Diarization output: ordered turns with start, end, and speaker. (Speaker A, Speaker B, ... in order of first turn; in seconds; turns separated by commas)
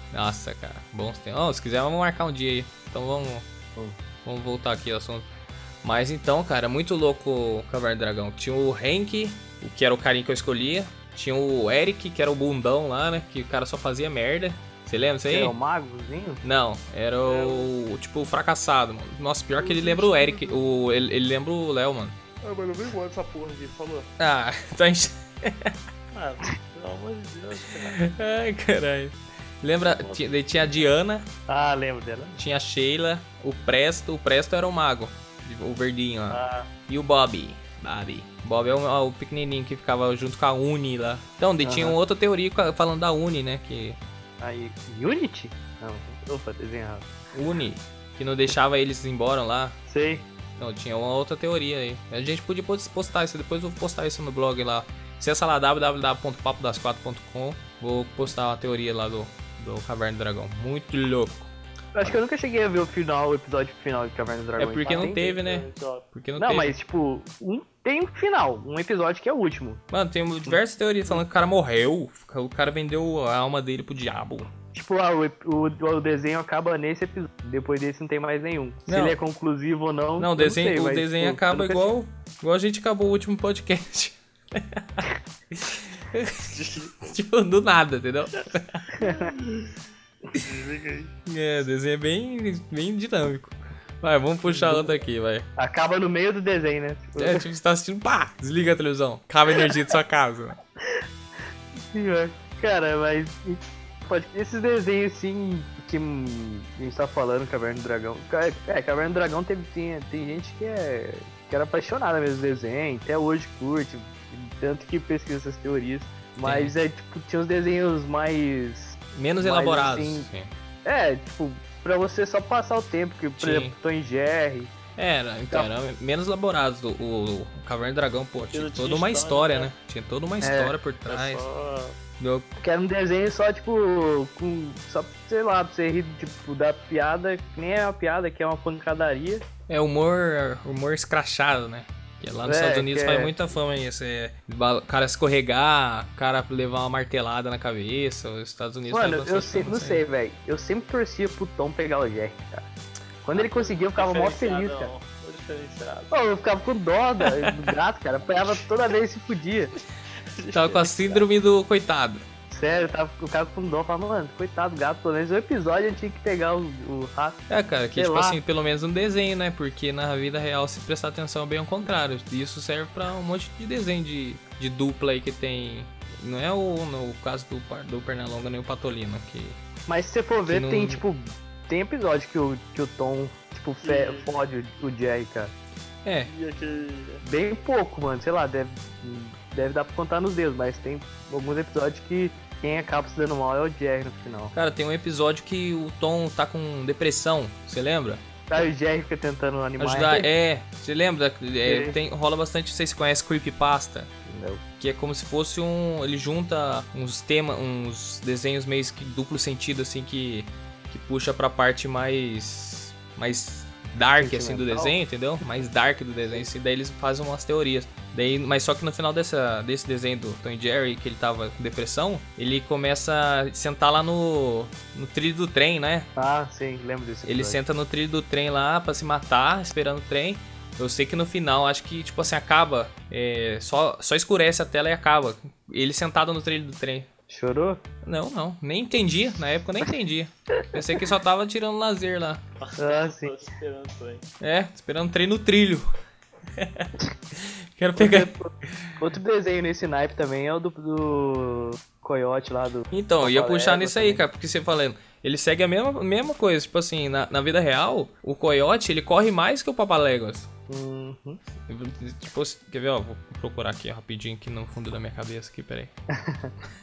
Speaker A: 0.1-3.4, Speaker A: 4.2-5.3, Speaker A: 5.8-15.5, Speaker B: 15.3-16.4, Speaker A: 16.4-22.1, Speaker C: 17.2-17.7, Speaker C: 19.6-20.6, Speaker C: 22.4-24.1, Speaker A: 24.2-25.8, Speaker C: 26.1-28.0, Speaker A: 27.8-31.3, Speaker C: 29.8-30.8, Speaker B: 31.5-32.4, Speaker A: 32.4-44.0, Speaker B: 36.3-36.7, Speaker B: 41.6-42.0, Speaker B: 44.4-47.1, Speaker A: 47.3-49.8, Speaker B: 49.9-50.2, Speaker A: 50.6-61.5, Speaker B: 61.9-65.2, Speaker A: 64.6-66.7, Speaker C: 65.0-66.0, Speaker B: 66.4-69.8, Speaker A: 69.9-74.5, Speaker B: 74.7-81.9, Speaker A: 78.9-79.2, Speaker A: 80.2-88.9, Speaker C: 86.5-87.0, Speaker C: 88.9-89.7, Speaker B: 88.9-89.3, Speaker C: 90.3-91.1, Speaker A: 91.2-95.5, Speaker B: 94.5-94.9, Speaker B: 95.6-97.5, Speaker A: 97.2-100.6, Speaker B: 101.9-120.3, Speaker A: 116.4-116.7, Speaker A: 119.1-120.5, Speaker B: 120.8-124.7, Speaker A: 123.4-123.7, Speaker A: 125.0-131.4, Speaker C: 128.5-129.7, Speaker B: 130.4-130.7, Speaker C: 131.1-131.9, Speaker A: 132.2-132.5, Speaker B: 132.6-139.4, Speaker A: 139.7-150.0, Speaker B: 142.4-143.3, Speaker B: 148.9-152.7, Speaker B: 153.2-154.9, Speaker C: 153.3-156.1, Speaker B: 156.1-159.7, Speaker C: 160.4-161.2, Speaker A: 160.5-162.2, Speaker B: 162.5-167.4, Speaker A: 167.5-179.6, Speaker B: 167.9-168.4, Speaker B: 179.9-185.5, Speaker A: 180.5-181.0, Speaker C: 183.8-184.3, Speaker A: 186.0-186.3, Speaker C: 186.2-187.2, Speaker B: 187.2-194.5, Speaker A: 194.5-198.6, Speaker B: 198.5-200.3, Speaker A: 199.8-204.1, Speaker B: 201.6-201.9, Speaker B: 204.3-204.6, Speaker A: 204.8-226.1, Speaker B: 214.2-215.0, Speaker B: 226.2-227.6, Speaker A: 227.2-237.1, Speaker B: 237.3-237.8, Speaker A: 238.0-242.4, Speaker C: 242.6-244.2, Speaker B: 242.8-243.4, Speaker A: 244.4-245.9, Speaker A: 246.5-248.9, Speaker B: 247.9-254.2, Speaker A: 252.9-260.5, Speaker B: 260.7-261.4, Speaker A: 261.7-265.9, Speaker B: 266.1-266.6